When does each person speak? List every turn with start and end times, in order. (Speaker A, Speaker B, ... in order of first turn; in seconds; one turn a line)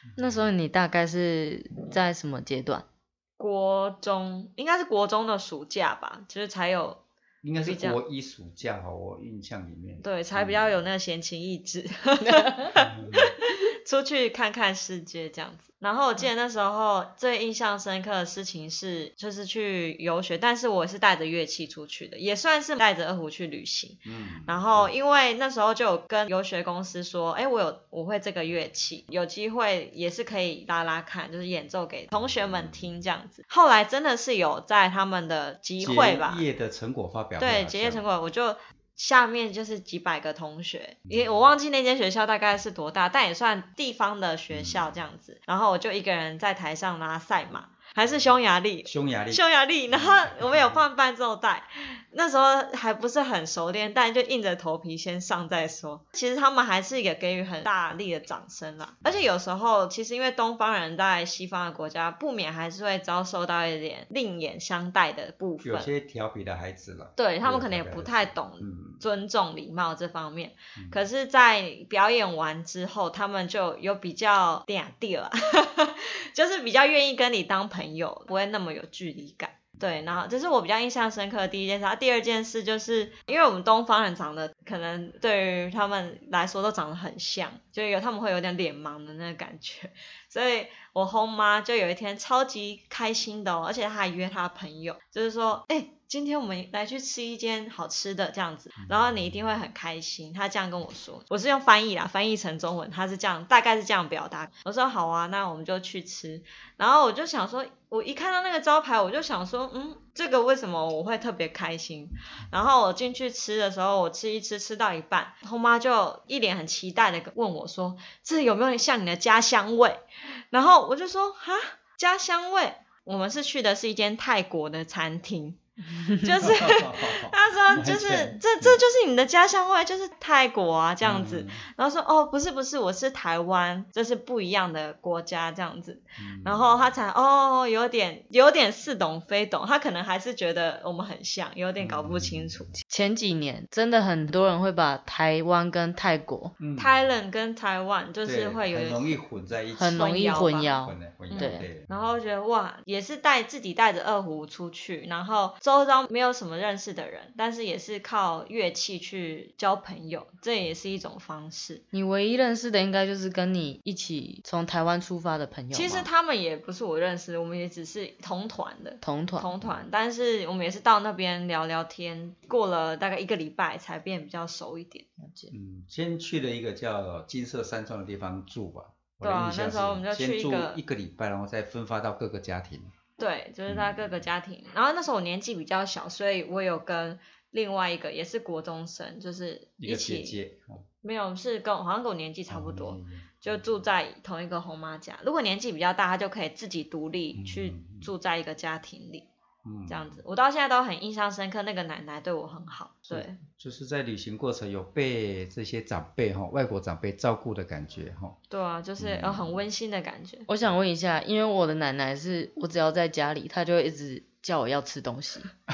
Speaker A: 0.2-2.9
Speaker B: 3.4-7.0
Speaker C: 7.4-10.8
Speaker B: 7.6-8.0
Speaker B: 10.0-36.4
Speaker C: 12.8-13.3
Speaker C: 24.1-24.9
Speaker C: 32.2-32.8
Speaker C: 35.8-38.0
Speaker B: 37.4-65.9
Speaker C: 41.1-41.4
Speaker C: 44.5-44.9
Speaker C: 48.9-50.8
Speaker C: 65.6-69.0
Speaker B: 67.2-142.7
Speaker C: 98.8-99.3
Speaker C: 126.4-128.8
Speaker C: 131.0-131.6
Speaker C: 136.2-136.7
Speaker C: 141.8-142.6
Speaker A: 142.9-146.6
Speaker C: 146.6-146.9
Speaker B: 146.8-149.2
Speaker C: 148.2-151.9
Speaker A: 149.8-151.7
Speaker B: 149.9-150.7
Speaker B: 151.3-161.8
Speaker A: 161.9-166.1
Speaker B: 165.7-175.1
Speaker A: 169.0-169.5
Speaker A: 175.2-175.5
Speaker C: 175.5-182.9
Speaker B: 179.2-180.8
Speaker B: 183.2-190.4
Speaker C: 183.7-184.2
Speaker C: 189.8-190.8
Speaker B: 191.0-199.3
Speaker C: 192.5-193.6
Speaker C: 197.3-198.1
Speaker C: 199.7-200.2
Speaker B: 199.9-203.4
Speaker C: 203.1-208.4
Speaker B: 208.5-210.5
Speaker C: 209.0-209.6
Speaker A: 210.5-215.5